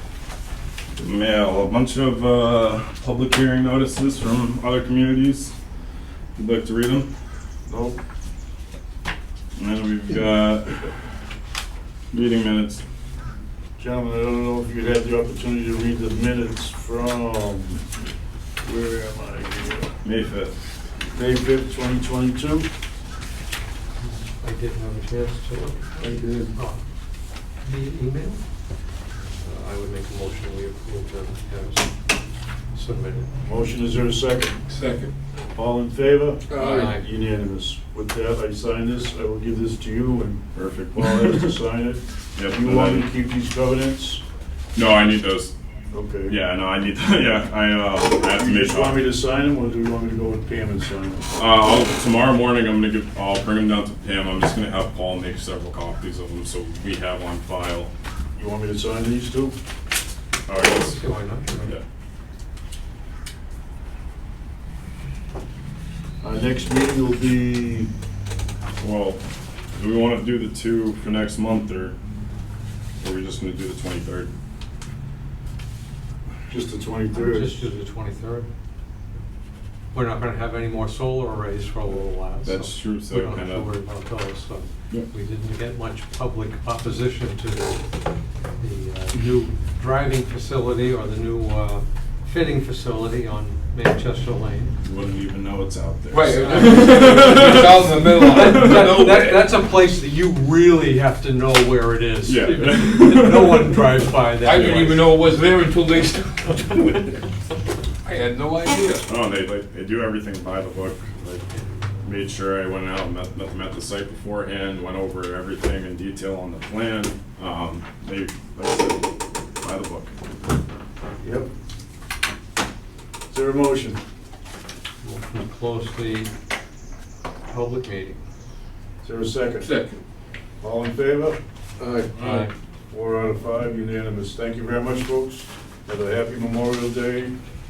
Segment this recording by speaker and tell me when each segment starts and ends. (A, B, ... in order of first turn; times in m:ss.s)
0:01.0-0:05.5 A
0:06.4-0:07.1 A
0:07.7-0:08.0 B
0:09.6-0:10.9 A
0:12.1-0:12.8 A
0:13.8-0:17.8 B
0:18.6-0:19.9 B
0:20.0-0:20.6 A
0:21.1-0:22.7 B
0:24.0-0:26.8 C
0:26.0-0:26.5 D
0:27.6-0:28.4 C
0:29.4-0:31.9 C
0:32.7-0:33.3 C
0:33.4-0:34.6 B
0:34.8-0:35.1 D
0:35.6-0:40.4 B
0:36.5-0:37.0 D
0:36.6-0:37.0 C
0:40.6-0:41.6 A
0:40.9-0:44.2 B
0:42.4-0:43.1 A
0:44.8-0:45.5 A
0:45.9-0:46.4 B
0:46.3-0:49.1 A
0:48.4-0:51.3 B
0:51.4-0:57.9 A
0:58.4-0:59.6 B
1:00.5-1:01.0 A
1:00.6-1:01.7 C
1:06.2-1:07.9 B
1:08.8-1:09.2 A
1:09.7-1:12.0 A
1:13.0-1:14.3 A
1:16.5-1:17.6 B
1:17.1-1:18.5 C
1:19.9-1:27.9 C
1:22.4-1:23.7 A
1:28.6-1:34.8 C
1:34.8-1:39.0 A
1:36.1-1:39.4 D
1:36.3-1:45.0 C
1:42.2-1:43.9 A
1:44.4-1:46.4 D
1:44.5-1:44.9 A
1:46.5-1:47.2 C
1:48.0-1:49.0 D
1:49.0-1:51.4 A
1:52.0-1:59.0 A
1:59.6-2:00.2 A
2:01.2-2:01.5 B
2:03.3-2:04.0 B
2:05.0-2:06.3 C
2:07.5-2:08.2 C
2:09.0-2:09.7 B
2:09.6-2:10.0 D
2:10.6-2:11.4 B
2:11.8-2:12.5 D
2:12.2-2:12.5 C
2:12.9-2:17.3 B